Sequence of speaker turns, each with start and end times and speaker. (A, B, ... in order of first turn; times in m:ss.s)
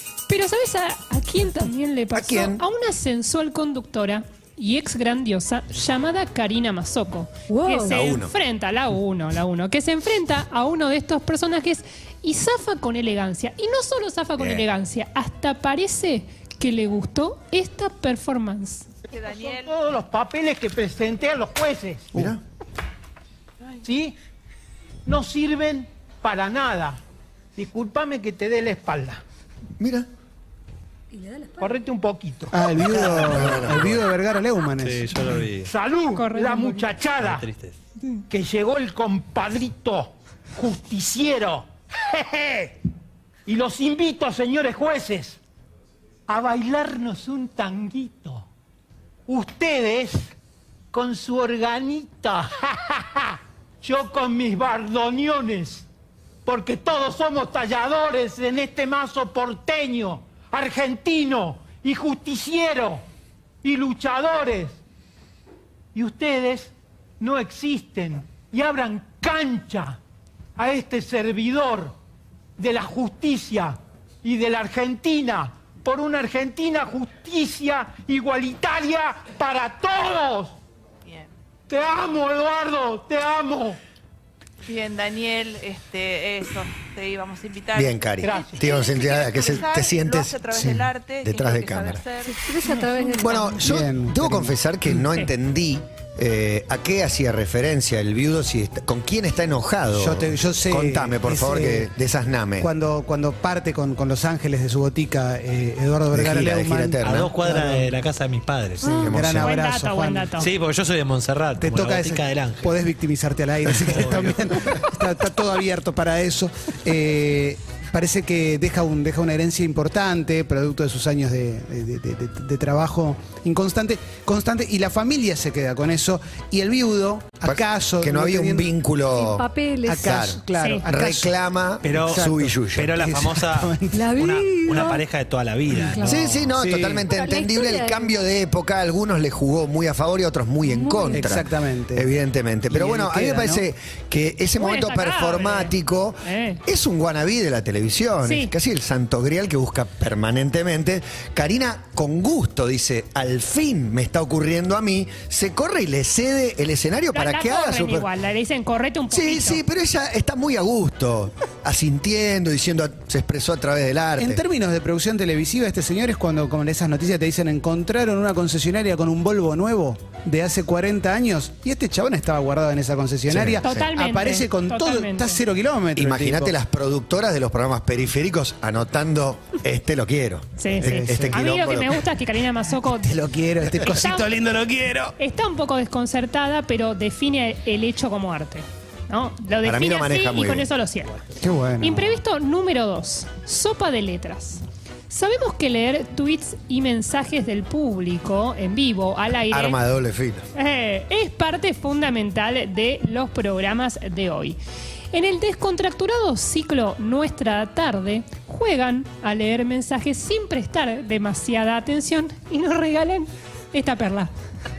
0:00.3-0:18.9 A
0:02.1-0:02.6 B
0:07.5-0:08.0 C
0:07.9-0:08.3 B
0:14.4-0:14.6 B
0:19.1-0:19.7 D
0:19.3-0:22.2 E
0:22.1-0:22.4 B
0:23.8-0:24.2 E
0:25.1-0:27.0 E
0:27.6-0:29.2 E
0:29.8-0:30.1 B
0:31.1-0:31.7 C
0:31.6-0:32.6 E
0:32.5-0:35.2 F
0:32.9-0:34.1 B
0:34.8-0:35.7 G
0:35.6-0:37.4 E
0:36.1-0:36.9 A
0:37.2-0:37.8 G
0:38.3-0:42.7 E
0:43.5-0:45.4 E
0:46.3-0:48.5 E
0:49.3-0:50.3 E
0:50.9-0:55.8 E
0:56.4-1:03.0 E
1:03.6-1:04.8 E
1:05.9-1:10.0 E
1:10.6-1:11.9 E
1:12.6-1:20.6 E
1:21.7-1:23.8 E
1:24.6-1:32.3 D
1:27.7-1:30.4 B
1:28.2-1:28.6 E
1:30.5-1:30.9 F
1:31.2-1:32.0 B
1:32.2-1:33.6 C
1:33.2-1:42.7 B
1:33.5-1:34.6 F
1:39.9-1:41.9 F
1:42.6-1:47.9 F
1:46.1-1:47.5 B
1:47.0-1:49.0 G
1:48.8-1:50.4 F
1:48.9-1:50.5 A
1:48.9-1:49.6 B
1:50.4-1:52.8 G
1:51.6-2:08.7 F
1:53.8-1:54.4 G
2:07.4-2:09.5 B
2:09.1-2:10.1 C
2:09.9-2:11.3 F
2:10.0-2:13.0 B
2:10.6-2:10.8 A
2:11.8-2:16.2 G
2:12.0-2:12.4 F
2:13.0-2:14.1 F
2:13.9-2:15.0 C
2:15.8-2:16.2 C
2:16.0-2:38.1 B
2:16.5-2:17.0 F
2:17.0-2:18.2 C
2:20.6-2:21.3 C
2:21.1-2:22.1 F
2:22.7-2:23.6 F
2:24.6-2:26.6 A
2:28.2-2:28.5 A
2:37.1-2:39.6 A
2:39.1-2:44.4 B
2:44.2-2:56.5 F
2:53.3-2:53.9 B
2:53.6-2:55.4 A
2:56.0-3:02.0 B
3:00.6-3:03.1 A
3:00.8-3:01.4 F
3:03.0-3:05.1 F
3:03.8-3:04.3 A
3:05.2-3:11.2 A
3:09.6-3:10.7 B
3:11.4-3:12.2 F
3:11.8-3:19.8 A
3:19.5-3:20.4 B
3:20.5-3:24.6 A
3:25.1-3:34.3 A